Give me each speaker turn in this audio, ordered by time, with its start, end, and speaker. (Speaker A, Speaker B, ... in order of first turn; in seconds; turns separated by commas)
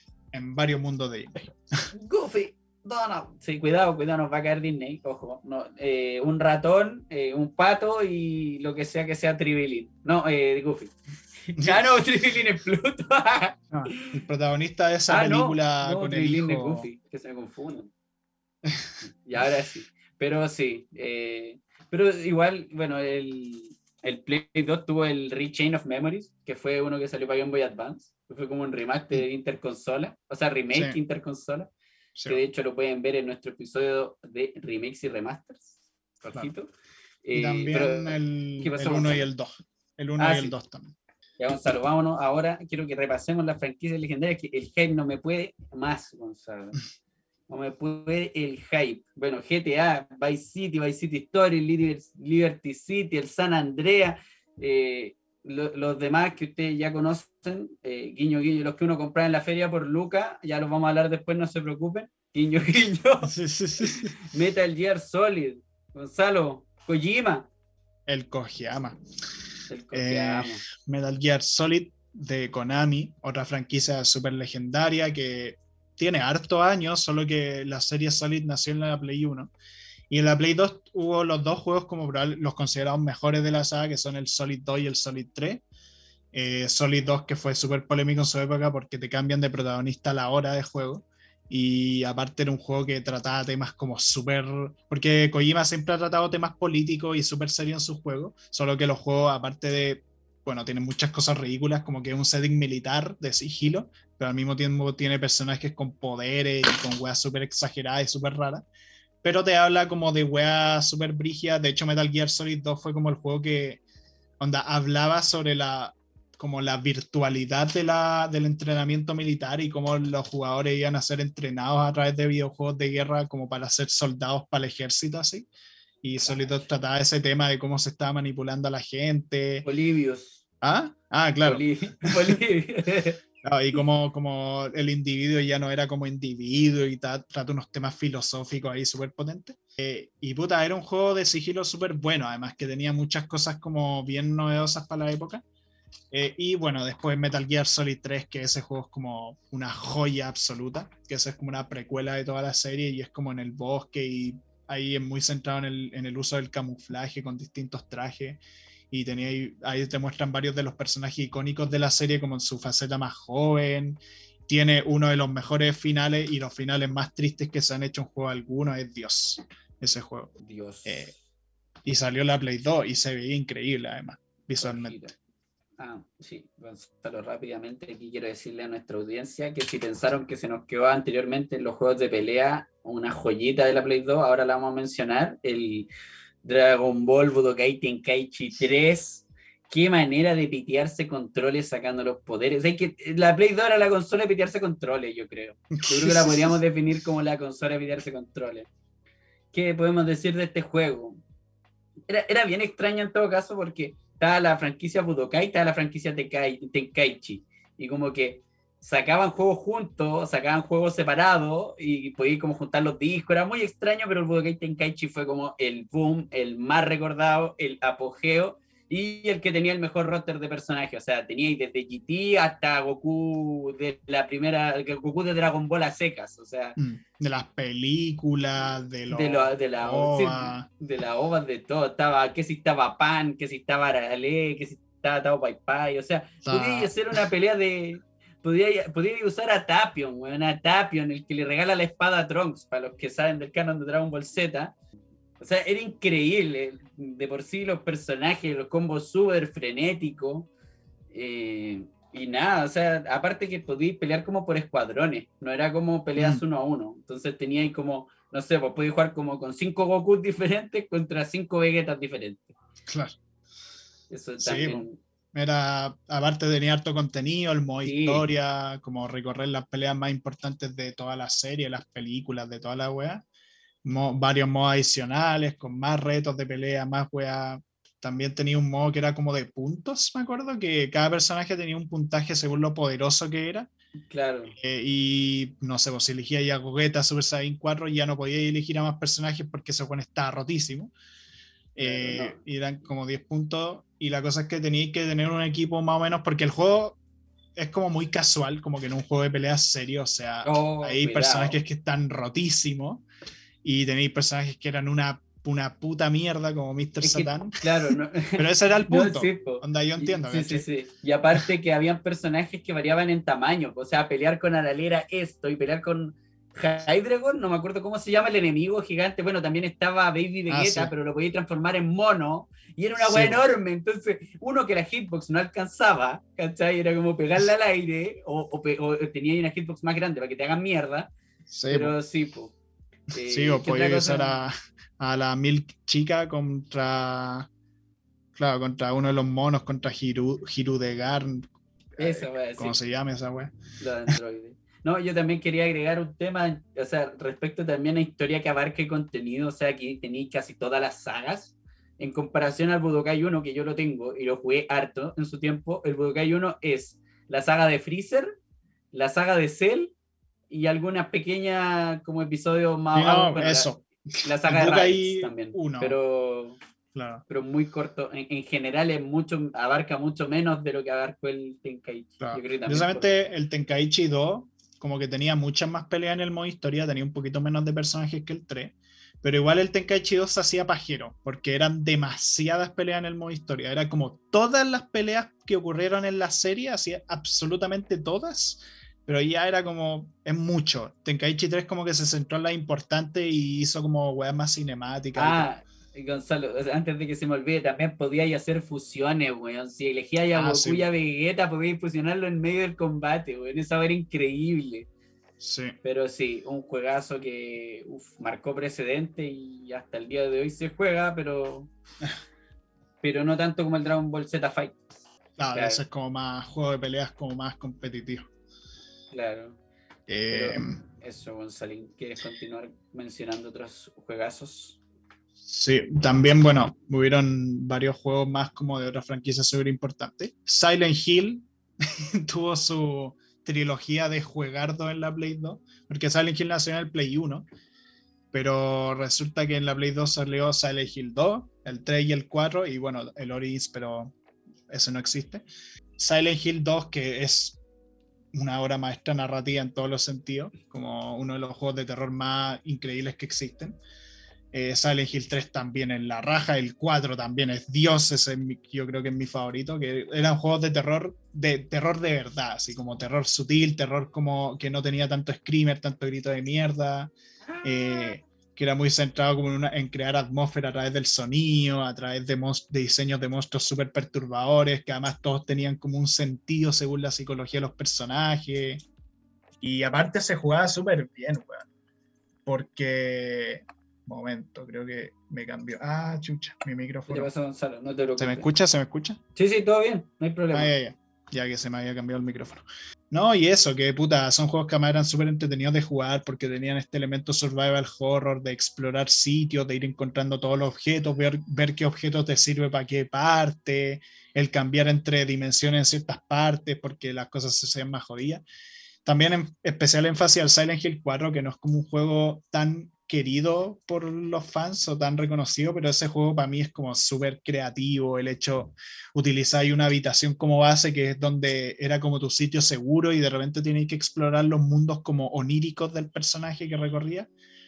Speaker A: 0.3-1.9, Speaker B: 1.9-14.2, Speaker A: 11.6-11.8, Speaker A: 13.7-16.9, Speaker B: 15.1-17.9, Speaker A: 18.6-18.9, Speaker B: 19.2-31.7, Speaker A: 30.7-31.0, Speaker A: 32.1-32.4, Speaker B: 32.2-36.7, Speaker B: 37.2-39.3, Speaker A: 37.3-40.9, Speaker B: 40.2-40.5, Speaker B: 41.4-46.8, Speaker B: 47.5-67.5, Speaker A: 63.3-64.2, Speaker A: 68.1-69.0, Speaker B: 69.7-70.6, Speaker A: 69.9-79.5, Speaker A: 80.1-85.6, Speaker A: 86.3-108.6, Speaker A: 109.2-113.8, Speaker A: 114.4-125.5, Speaker A: 126.0-129.7, Speaker B: 126.2-126.6, Speaker B: 129.6-130.4, Speaker A: 130.6-132.4, Speaker B: 131.4-133.2, Speaker A: 133.4-145.4, Speaker A: 146.1-170.3, Speaker B: 170.4-171.2, Speaker A: 170.8-171.1, Speaker A: 171.8-175.1, Speaker B: 174.6-175.1, Speaker B: 175.8-185.9, Speaker B: 186.4-198.7, Speaker A: 195.8-196.5, Speaker B: 199.5-201.2, Speaker B: 202.1-226.8, Speaker A: 226.8-230.7, Speaker B: 229.1-244.7, Speaker A: 236.4-236.9, Speaker B: 245.4-250.5, Speaker B: 251.1-262.6, Speaker A: 256.2-256.4, Speaker A: 262.9-263.1, Speaker B: 264.1-265.0, Speaker A: 264.4-273.2, Speaker B: 267.8-268.2, Speaker A: 273.8-283.7, Speaker B: 284.1-284.6, Speaker A: 284.5-290.9, Speaker A: 291.7-297.0, Speaker B: 291.8-292.4, Speaker A: 297.6-303.0, Speaker B: 300.4-301.6, Speaker A: 303.6-307.6, Speaker B: 307.0-331.1, Speaker A: 308.4-310.7, Speaker A: 320.5-320.9, Speaker A: 323.0-323.4, Speaker A: 331.5-331.9, Speaker B: 331.7-332.5, Speaker B: 333.1-334.4, Speaker A: 333.3-337.5, Speaker A: 338.3-343.5, Speaker B: 342.0-342.8, Speaker B: 343.8-358.3, Speaker B: 358.9-359.9, Speaker B: 360.5-363.7, Speaker A: 362.9-366.0, Speaker B: 364.2-366.6, Speaker A: 366.9-367.2, Speaker B: 367.3-373.1, Speaker A: 372.2-395.5, Speaker B: 395.1-404.9, Speaker A: 400.3-400.9, Speaker A: 405.4-405.7, Speaker B: 405.8-411.7, Speaker B: 413.0-414.8, Speaker A: 415.4-418.3, Speaker B: 415.5-415.8, Speaker B: 419.1-419.6, Speaker A: 420.1-420.8, Speaker B: 420.3-424.8, Speaker A: 425.4-437.4, Speaker A: 438.3-444.1, Speaker A: 444.7-445.4, Speaker A: 446.0-447.6, Speaker A: 448.3-453.8, Speaker A: 454.5-478.8, Speaker B: 467.5-468.1, Speaker A: 479.6-481.6, Speaker A: 482.4-487.3, Speaker B: 487.1-488.5, Speaker A: 488.2-489.2, Speaker B: 489.3-490.7, Speaker A: 490.5-508.4, Speaker A: 509.0-527.3